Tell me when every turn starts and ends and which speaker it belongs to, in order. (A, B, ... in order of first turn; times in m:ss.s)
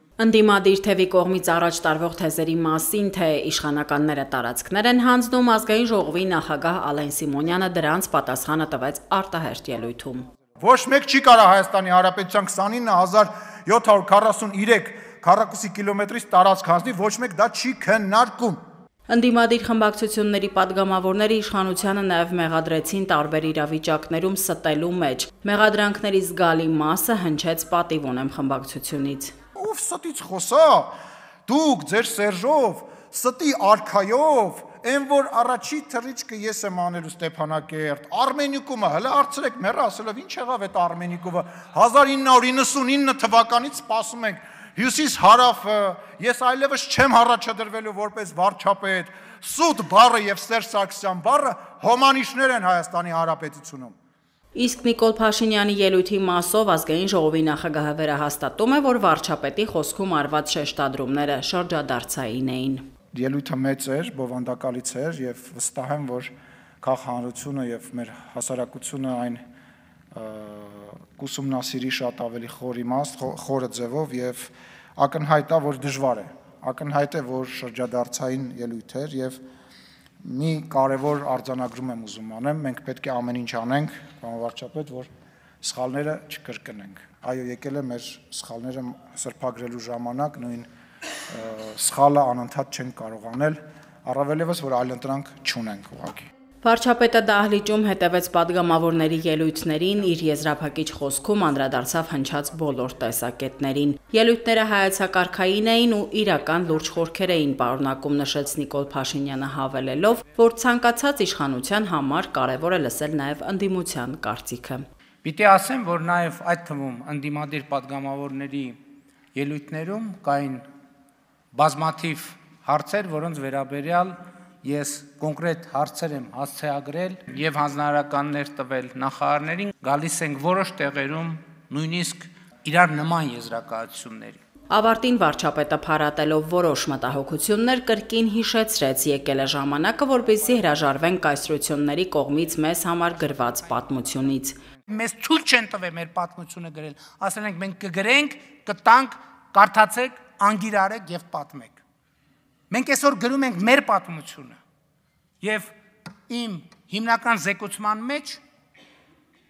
0:00.2-0:10.3 A
0:10.6-0:18.6 B
0:19.1-0:29.3 A
0:29.5-0:54.0 B
0:54.5-1:02.9 A
1:03.1-1:09.4 B
1:10.1-1:19.4 B
1:20.2-1:25.1 B
1:25.6-1:30.7 B
1:31.3-1:36.3 B
1:36.6-1:54.8 A
1:55.2-1:58.8 C
1:59.3-2:00.6 C
2:01.5-2:14.4 C
2:14.7-2:24.6 A
2:24.9-2:31.8 C
2:32.7-2:34.6 C
2:35.4-2:35.7 C
2:36.3-2:38.4 C